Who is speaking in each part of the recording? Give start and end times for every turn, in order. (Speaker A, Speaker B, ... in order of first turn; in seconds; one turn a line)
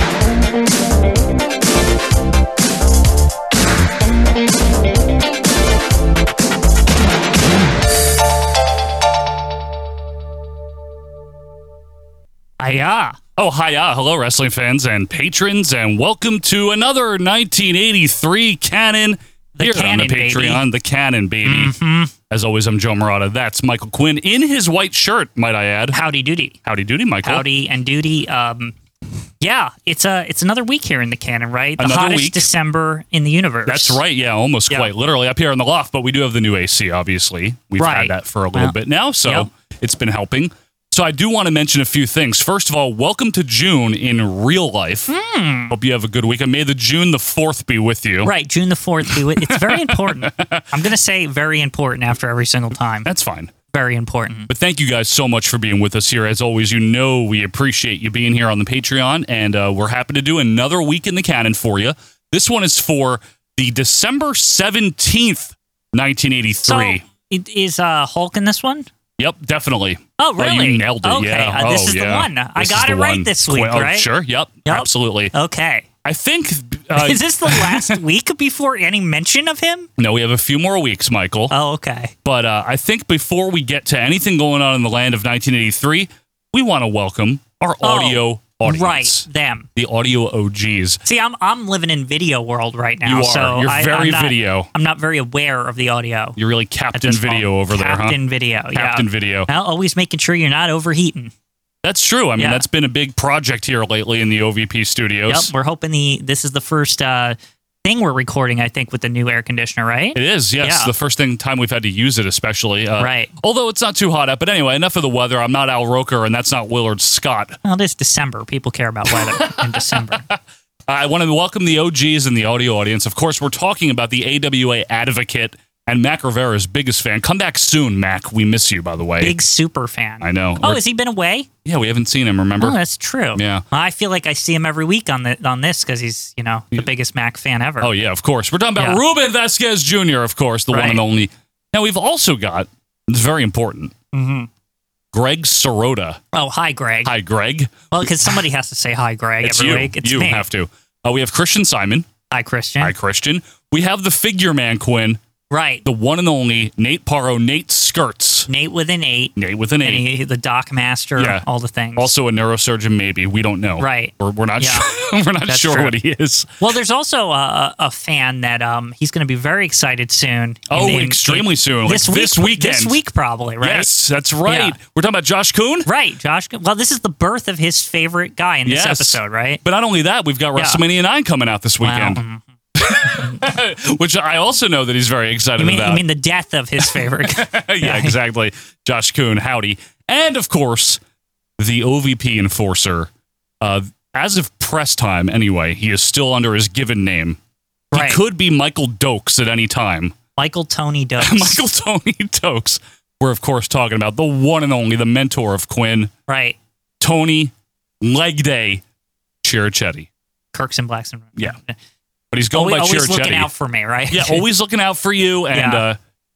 Speaker A: 12.6-13.2
Speaker B: 13.4-21.7
Speaker A: 19.6-20.6
Speaker A: 21.4-22.1
Speaker B: 22.3-26.0
Speaker A: 25.9-26.6
Speaker B: 26.6-27.4
Speaker A: 27.2-28.7
Speaker A: 29.4-34.0
Speaker B: 31.8-32.5
Speaker B: 33.6-45.1
Speaker A: 37.8-39.5
Speaker A: 45.1-45.7
Speaker B: 45.7-48.3
Speaker A: 48.2-53.1
Speaker B: 49.1-50.6
Speaker B: 53.0-53.5
Speaker A: 53.7-54.5
Speaker B: 54.5-67.0
Speaker A: 66.6-68.9
Speaker B: 69.2-75.3
Speaker A: 70.2-74.1
Speaker A: 74.7-75.9
Speaker B: 76.0-78.0
Speaker A: 76.9-79.9
Speaker B: 80.0-81.5
Speaker A: 81.5-82.1
Speaker B: 82.2-91.0
Speaker A: 87.8-89.7
Speaker A: 91.0-96.4
Speaker B: 93.0-94.7
Speaker B: 96.4-98.2
Speaker A: 96.9-101.3
Speaker B: 98.7-99.5
Speaker B: 101.8-105.5
Speaker A: 102.4-102.6
Speaker A: 105.3-110.9
Speaker B: 110.2-117.6
Speaker A: 113.0-113.3
Speaker A: 117.6-120.2
Speaker B: 119.1-129.4
Speaker A: 129.2-131.5
Speaker B: 130.2-130.8
Speaker B: 131.6-132.8
Speaker A: 132.6-137.9
Speaker B: 133.3-133.6
Speaker B: 137.8-143.9
Speaker A: 140.7-141.0
Speaker A: 144.1-144.5
Speaker B: 145.1-146.2
Speaker A: 146.3-147.1
Speaker B: 147.0-148.4
Speaker A: 147.9-150.4
Speaker B: 149.4-152.1
Speaker A: 152.3-152.9
Speaker B: 152.8-155.2
Speaker A: 155.5-155.8
Speaker B: 155.8-158.5
Speaker A: 158.5-162.1
Speaker B: 159.4-160.0
Speaker B: 161.2-161.4
Speaker B: 161.9-166.6
Speaker A: 163.8-164.9
Speaker A: 165.5-165.9
Speaker A: 166.6-173.9
Speaker B: 170.7-173.0
Speaker B: 173.6-175.9
Speaker A: 174.4-174.8
Speaker A: 175.8-179.6
Speaker B: 178.7-182.2
Speaker A: 180.6-180.8
Speaker A: 181.8-182.4
Speaker B: 182.8-186.0
Speaker A: 183.2-183.4
Speaker A: 185.6-188.1
Speaker B: 186.8-191.0
Speaker B: 191.6-193.1
Speaker B: 193.6-197.4
Speaker A: 197.9-198.2
Speaker B: 197.9-200.1
Speaker A: 200.4-201.6
Speaker B: 201.2-206.1
Speaker A: 206.3-206.6
Speaker B: 207.0-208.8
Speaker B: 209.4-210.1
Speaker A: 210.5-211.8
Speaker B: 212.3-213.5
Speaker A: 212.5-214.4
Speaker B: 214.1-216.0
Speaker A: 215.5-215.8